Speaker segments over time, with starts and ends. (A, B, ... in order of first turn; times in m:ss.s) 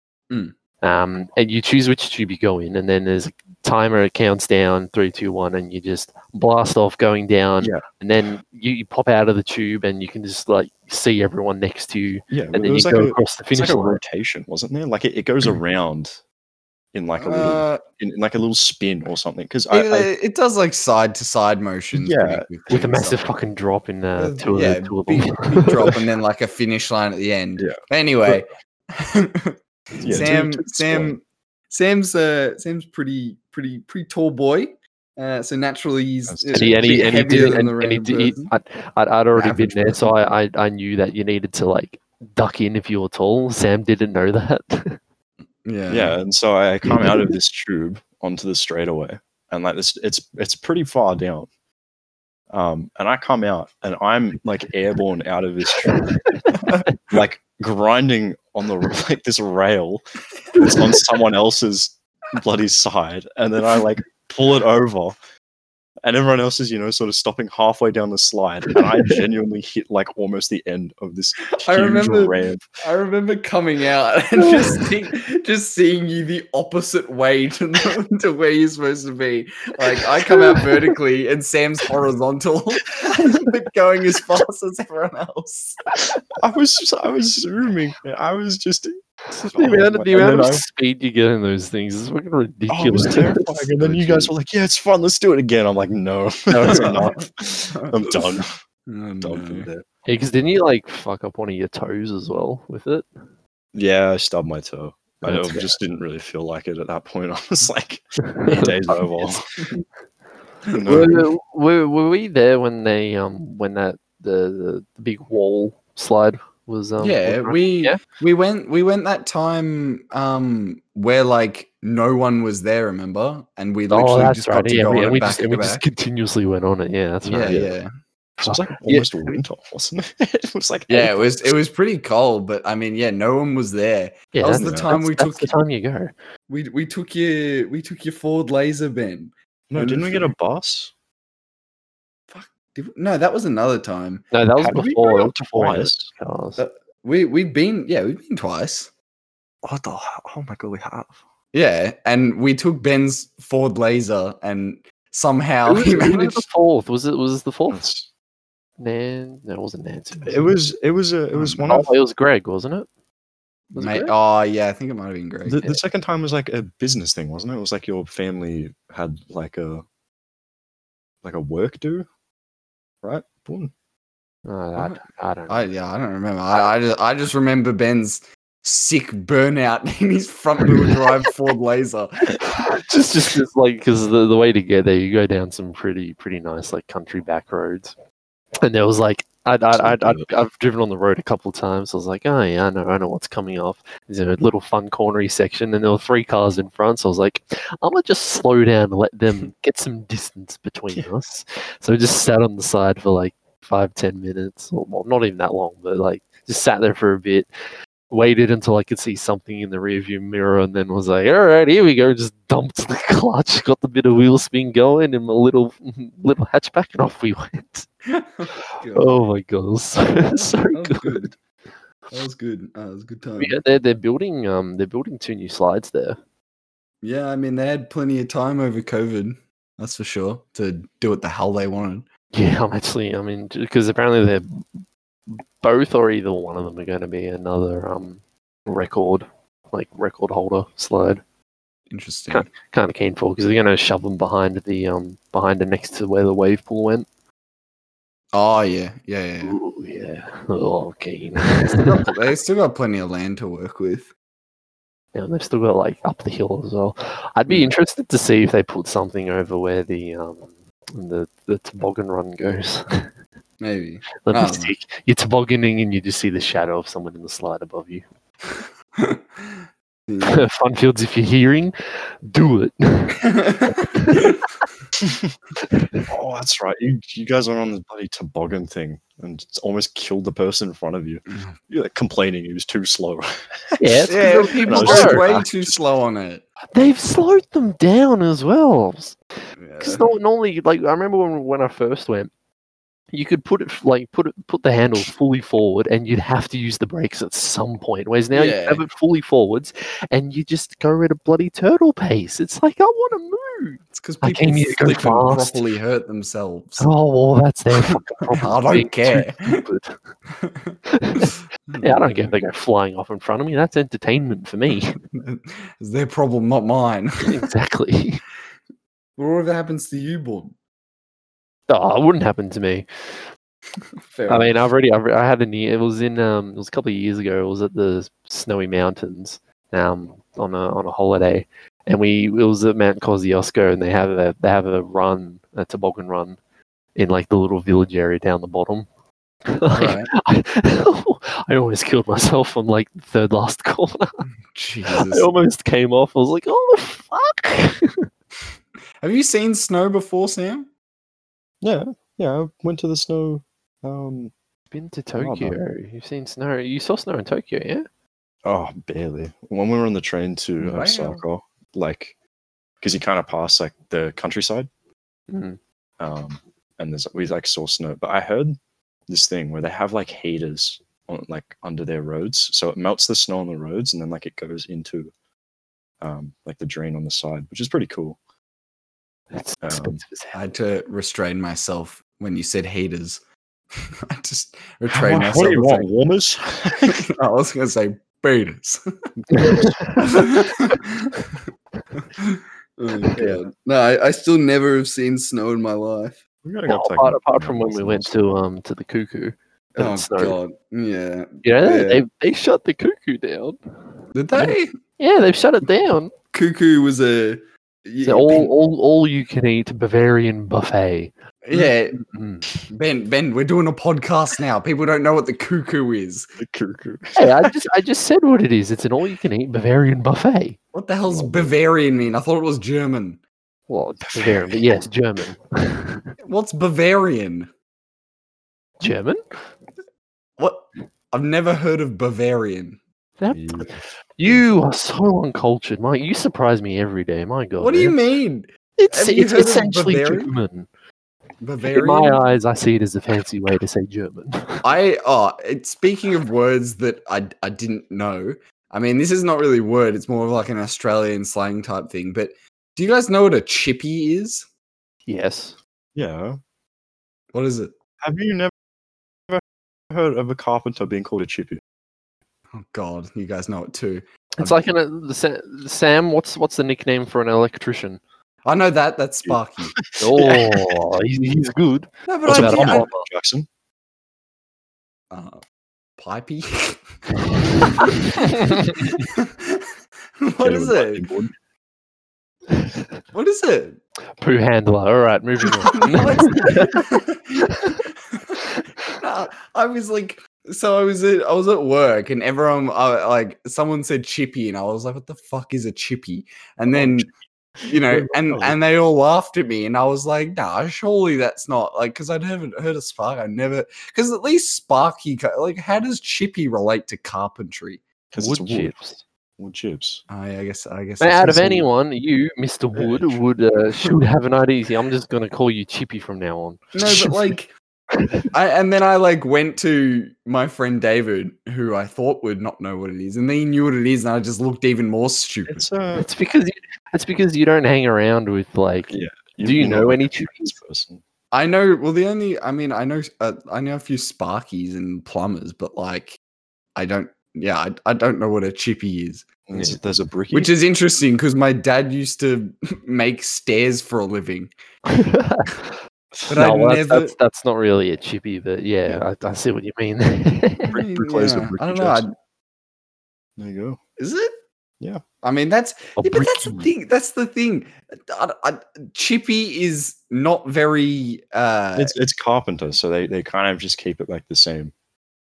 0:00.3-0:00.5 A
0:00.8-0:14.0 B
0:12.3-0:16.2 C
0:16.9-0:20.1 C
0:17.2-0:17.8 A
0:19.7-0:23.2 A
0:21.9-0:22.5 C
0:22.7-0:25.9 B
0:24.2-0:38.5 A
0:27.6-0:28.4 C
0:30.0-0:31.1 C
0:36.3-0:37.0 C
0:36.5-0:45.0 B
0:39.3-0:40.1 A
0:45.6-0:46.2 A
0:45.9-0:51.5 C
0:46.9-0:47.3 B
0:52.5-0:56.1 C
0:55.9-0:56.9 B
0:57.0-1:00.0 C
1:00.5-1:05.2 C
1:06.0-1:12.6 C
1:11.6-1:25.8 A
1:26.3-1:30.6 C
1:29.3-1:33.4 B
1:32.7-1:38.6 C
1:33.8-1:34.3 A
1:36.5-1:37.2 B
1:36.7-1:37.2 A
1:37.7-1:38.2 A
1:38.9-1:39.7 A
1:39.2-1:39.8 C
1:40.0-1:43.0 B
1:43.7-1:49.4 C
1:45.2-1:45.7 B
1:48.3-1:49.4 B
1:50.7-1:51.3 C
1:50.7-1:51.1 A
1:50.9-1:58.0 B
1:57.0-2:05.8 A
2:03.9-2:07.7 B
2:07.2-2:07.9 A
2:08.4-2:09.4 B
2:08.4-2:11.4 C
2:10.9-2:15.6 A
2:14.3-2:16.1 B
2:14.5-2:14.9 C
2:16.5-2:20.3 A
2:19.7-2:20.9 C
2:22.3-2:24.3 A
2:24.3-2:26.6 B
2:24.6-2:26.1 C
2:26.6-2:28.9 A
2:29.6-2:31.1 C
2:31.5-2:36.4 A
2:35.6-2:37.8 B
2:37.7-2:38.1 C
2:38.8-2:40.5 B
2:40.2-2:41.9 C
2:41.4-2:42.9 B
2:43.7-2:44.1 B
2:43.8-2:45.8 A
2:45.4-2:49.8 C
2:51.2-2:52.1 C
2:53.0-2:53.7 C
2:54.4-2:55.7 B
2:54.8-3:02.4 A
3:02.3-3:07.9 B
3:08.6-3:27.5 B
3:09.7-3:10.2 C
3:28.1-3:37.9 B
3:38.1-3:39.2 A
3:38.9-3:41.3 B
3:40.2-3:41.3 A
3:42.1-3:43.5 A
3:43.4-3:46.2 B
3:47.0-3:52.0 A
3:52.3-4:01.2 B
4:01.9-4:02.5 A
4:02.3-4:07.1 B
4:08.3-4:09.6 A
4:09.4-4:12.0 B
4:11.8-4:14.1 A
4:15.1-4:23.1 B
4:23.6-4:24.7 A
4:24.2-4:28.0 B
4:29.0-4:30.4 A
4:30.2-4:34.4 B
4:33.2-4:34.4 A
4:35.0-4:35.3 C
4:35.6-4:36.0 B
4:36.1-4:45.8 C
4:43.8-4:45.3 B
4:44.1-4:46.4 A
4:46.7-4:49.2 B
4:49.6-4:50.0 A
4:49.8-4:52.3 B
4:53.1-5:05.6 B
4:58.3-4:58.8 A
5:03.9-5:06.9 A
5:06.8-5:10.0 B
5:07.8-5:09.6 A
5:10.4-5:12.3 A
5:10.9-5:15.0 B
5:15.1-5:17.4 A
5:17.2-5:18.2 B
5:19.2-5:20.5 A
5:21.7-5:22.9 B
5:24.1-5:24.6 A
5:24.3-5:36.4 B
5:36.9-5:38.9 B
5:39.5-5:44.2 B
5:39.7-5:40.1 A
5:44.5-5:45.3 A
5:44.9-5:48.0 B
5:49.0-5:50.7 A
5:51.6-5:54.3 C
5:54.7-5:57.9 B
5:55.2-5:55.6 C
5:58.4-6:02.2 C
6:00.6-6:01.2 A
6:02.8-6:04.7 C
6:05.3-6:05.6 B
6:06.0-6:08.6 C
6:09.1-6:15.1 C
6:16.0-6:18.2 C
6:19.3-6:20.4 B
6:19.6-6:20.0 C
6:20.3-6:23.2 A
6:23.8-6:25.9 A
6:24.9-6:27.0 C
6:26.9-6:28.8 A
6:29.3-6:29.8 C
6:29.3-6:30.2 B
6:30.0-6:31.2 A
6:32.2-6:36.2 A
6:33.2-6:33.4 C
6:36.4-6:38.3 C
6:36.7-6:40.4 B
6:39.8-6:42.0 A
6:41.4-6:43.6 B
6:44.1-6:44.7 A
6:45.0-6:46.1 B
6:46.3-6:48.5 A
6:48.0-6:52.4 B
6:51.4-6:52.0 A
6:52.7-6:56.3 A
6:56.4-6:57.5 C
6:57.2-7:00.6 B
7:00.7-7:03.2 A
7:01.1-7:01.5 C
7:03.7-7:06.1 B
7:04.0-7:04.6 C
7:06.2-7:07.5 A
7:08.8-7:09.2 B
7:10.4-7:12.8 A
7:13.2-7:18.0 B
7:13.3-7:14.4 C
7:17.6-7:20.3 A
7:18.8-7:20.7 B
7:21.4-7:22.2 A
7:21.6-7:24.6 B
7:24.6-7:34.5 A
7:35.1-7:35.6 B
7:35.9-7:36.4 C
7:37.3-7:37.7 A
7:38.0-7:38.5 C
7:39.3-7:41.6 C
7:42.5-7:44.6 A
7:44.4-7:48.0 B
7:48.4-7:49.8 A
7:49.2-7:50.8 C
7:50.0-7:53.1 B
7:52.1-7:52.9 A
7:52.2-7:53.5 C
7:55.1-7:55.4 A
7:56.0-7:56.8 A
7:57.5-7:58.9 B
7:57.6-7:59.6 A
8:00.2-8:01.1 A
8:00.4-8:01.3 C
8:02.5-8:02.8 B
8:03.1-8:03.8 A
8:04.2-8:06.8 B
8:05.7-8:08.4 A
8:07.5-8:07.8 B
8:09.0-8:17.1 A
8:16.7-8:17.1 C
8:17.6-8:27.8 A
8:17.6-8:18.6 C
8:28.1-8:28.8 C
8:28.2-8:29.0 B
8:29.4-8:30.0 C
8:30.1-8:31.7 A
8:31.0-8:37.2 B
8:32.7-8:33.2 C
8:36.7-8:37.5 A
8:37.9-8:38.2 B
8:38.3-8:45.7 A
8:45.5-8:46.1 C
8:46.0-8:50.6 B
8:48.9-8:51.0 C
8:51.3-8:56.2 A
8:56.8-8:59.3 A
8:59.5-9:00.5 C
9:00.3-9:04.5 A
9:04.9-9:05.8 B
9:06.3-9:07.1 A
9:06.3-9:10.7 B
9:10.7-9:12.0 C
9:10.7-9:12.1 A
9:13.4-9:13.8 C
9:14.0-9:14.3 A
9:15.2-9:21.9 A
9:16.0-9:16.6 B
9:21.8-9:24.7 C